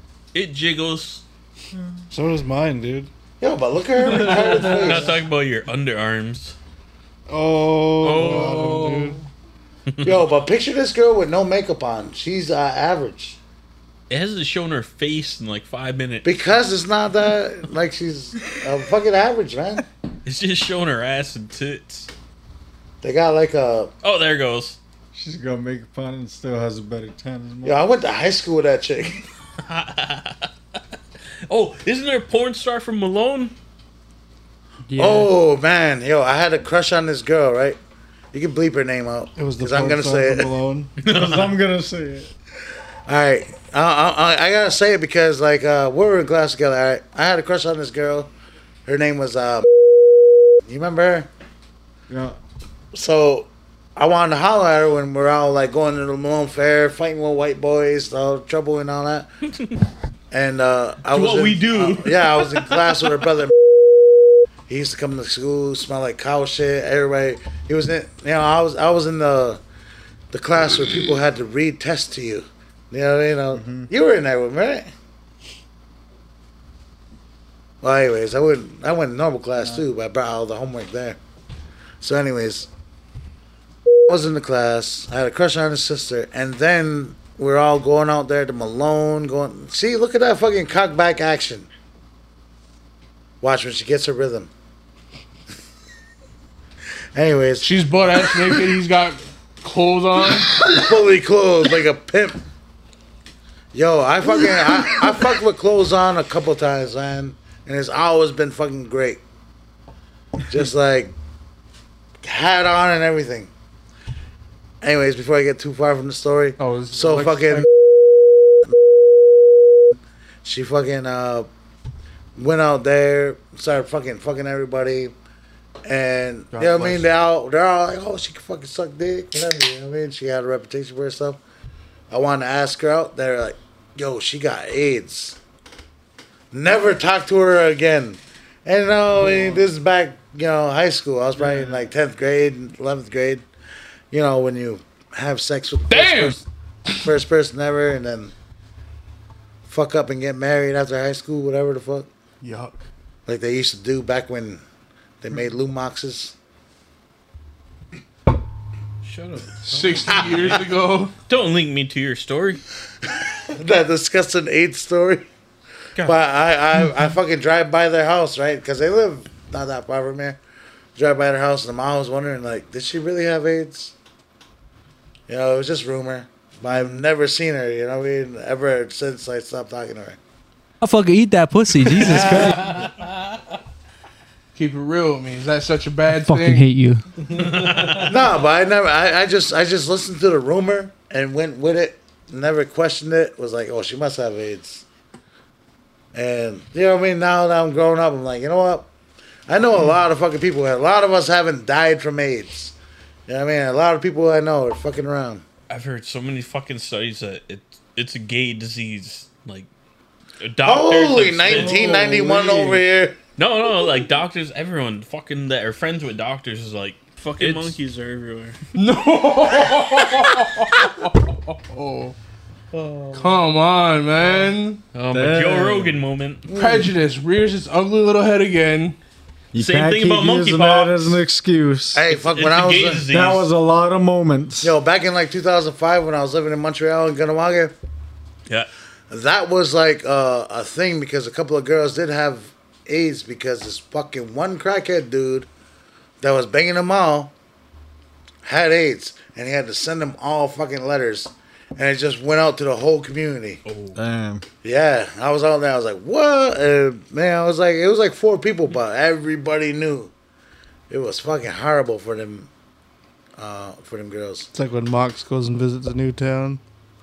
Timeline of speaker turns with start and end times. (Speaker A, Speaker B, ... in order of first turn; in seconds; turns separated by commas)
Speaker A: 0.3-1.2, Speaker B: 2.1-3.1, Speaker C: 3.4-5.2, Speaker A: 4.1-6.5, Speaker B: 7.3-9.2, Speaker A: 8.0-8.9, Speaker D: 8.4-9.2, Speaker A: 9.9-10.2, Speaker C: 10.0-13.4, Speaker A: 14.1-16.4, Speaker C: 16.2-19.8, Speaker A: 20.2-22.1, Speaker C: 23.0-23.9, Speaker A: 24.0-24.8, Speaker E: 25.1-27.8, Speaker C: 27.6-29.2, Speaker A: 29.6-30.5, Speaker A: 31.5-33.5, Speaker D: 34.9-35.3, Speaker C: 35.0-37.8, Speaker C: 38.3-40.5, Speaker B: 39.4-40.9, Speaker A: 41.0-41.5, Speaker E: 41.0-42.3, Speaker C: 43.1-48.3, Speaker C: 48.9-49.7, Speaker C: 50.6-51.3, Speaker E: 52.1-52.4, Speaker C: 52.9-59.3, Speaker C: 60.3-63.5, Speaker A: 61.1-62.8, Speaker C: 64.7-69.6, Speaker C: 70.3-74.9, Speaker E: 73.5-73.9, Speaker C: 77.8-81.2, Speaker C: 82.0-82.7, Speaker C: 84.1-91.7, Speaker C: 93.4-94.5, Speaker C: 97.1-97.7, Speaker F: 97.6-100.6, Speaker C: 100.6-102.4, Speaker C: 103.7-109.2, Speaker C: 110.5-111.1, Speaker C: 112.2-113.5, Speaker C: 114.8-117.7, Speaker F: 116.6-117.6, Speaker C: 120.4-121.5, Speaker C: 122.3-125.1, Speaker C: 125.8-131.4, Speaker F: 126.5-127.1, Speaker C: 132.1-135.4, Speaker C: 136.5-143.4, Speaker C: 144.1-148.3, Speaker F: 145.9-146.4, Speaker C: 149.7-152.1, Speaker F: 152.4-152.8, Speaker C: 153.2-154.6, Speaker C: 155.2-156.3, Speaker A: 159.0-160.6, Speaker F: 159.7-161.1, Speaker A: 161.3-162.6, Speaker C: 163.5-165.2, Speaker C: 166.0-170.4, Speaker C: 170.9-173.9, Speaker C: 175.3-180.2, Speaker D: 180.8-182.8, Speaker C: 182.0-182.7, Speaker F: 184.5-186.7, Speaker D: 186.2-187.0, Speaker A: 187.3-188.1, Speaker C: 187.9-194.8, Speaker C: 196.1-198.9, Speaker C: 199.5-202.7, Speaker C: 203.3-205.4, Speaker A: 205.7-209.7, Speaker A: 210.4-212.0, Speaker C: 210.6-213.2, Speaker F: 211.4-212.8, Speaker A: 213.4-218.6, Speaker F: 217.4-217.7, Speaker F: 218.7-222.1, Speaker C: 222.7-223.3, Speaker F: 223.1-224.8, Speaker A: 224.9-226.5, Speaker E: 225.1-226.0, Speaker F: 226.5-229.0, Speaker C: 226.5-226.9, Speaker E: 229.5-232.0, Speaker A: 229.5-231.2, Speaker C: 231.9-233.1, Speaker A: 232.1-233.4, Speaker E: 233.1-234.8, Speaker C: 234.6-237.7, Speaker C: 239.1-245.5, Speaker C: 246.2-247.3, Speaker C: 248.4-253.6, Speaker A: 253.7-254.0, Speaker E: 253.9-254.4, Speaker C: 254.6-260.1, Speaker C: 260.9-262.5, Speaker C: 263.4-264.5, Speaker B: 264.5-266.6